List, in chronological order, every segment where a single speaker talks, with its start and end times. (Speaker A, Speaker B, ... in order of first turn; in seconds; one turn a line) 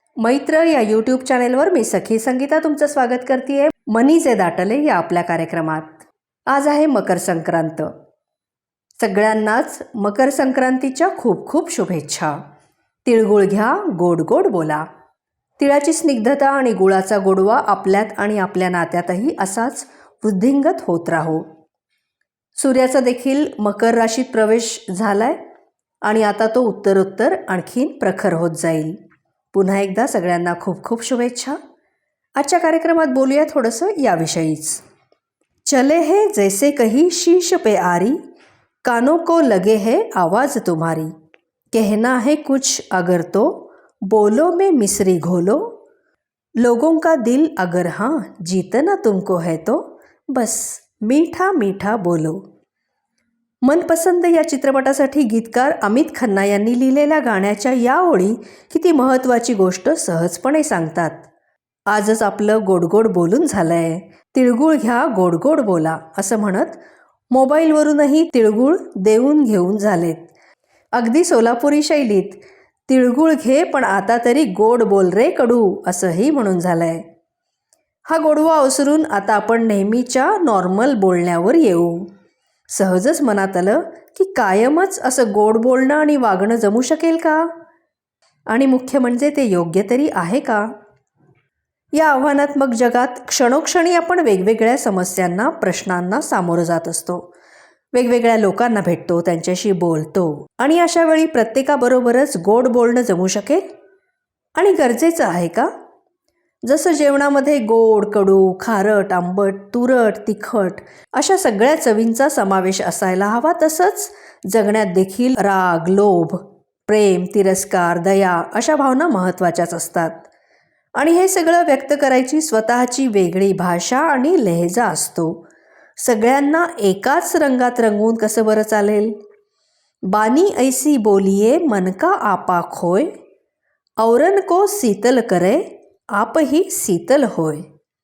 Speaker A: 0.2-7.9
Speaker A: 9.0-12.4
Speaker A: 13.1-14.9
Speaker A: 15.6-21.4
Speaker A: 22.6-25.4
Speaker A: 26.0-29.0
Speaker A: 29.5-31.6
Speaker A: 32.4-34.8
Speaker A: 35.6-38.2
Speaker A: 38.8-41.1
Speaker A: 41.7-45.6
Speaker A: 46.6-52.4
Speaker A: 53.6-61.3
Speaker A: 61.9-66.8
Speaker A: 67.3-70.3
Speaker A: 70.9-77.0
Speaker A: 78.1-82.1
Speaker A: 82.7-87.5
Speaker A: 88.5-90.7
Speaker A: 92.0-97.3
Speaker A: 97.9-103.7
Speaker A: 104.6-105.7
Speaker A: 106.7-120.3
Speaker A: 121.0-125.4
Speaker A: 126.0-129.2
Speaker A: 130.1-133.1
Speaker A: 134.0-137.7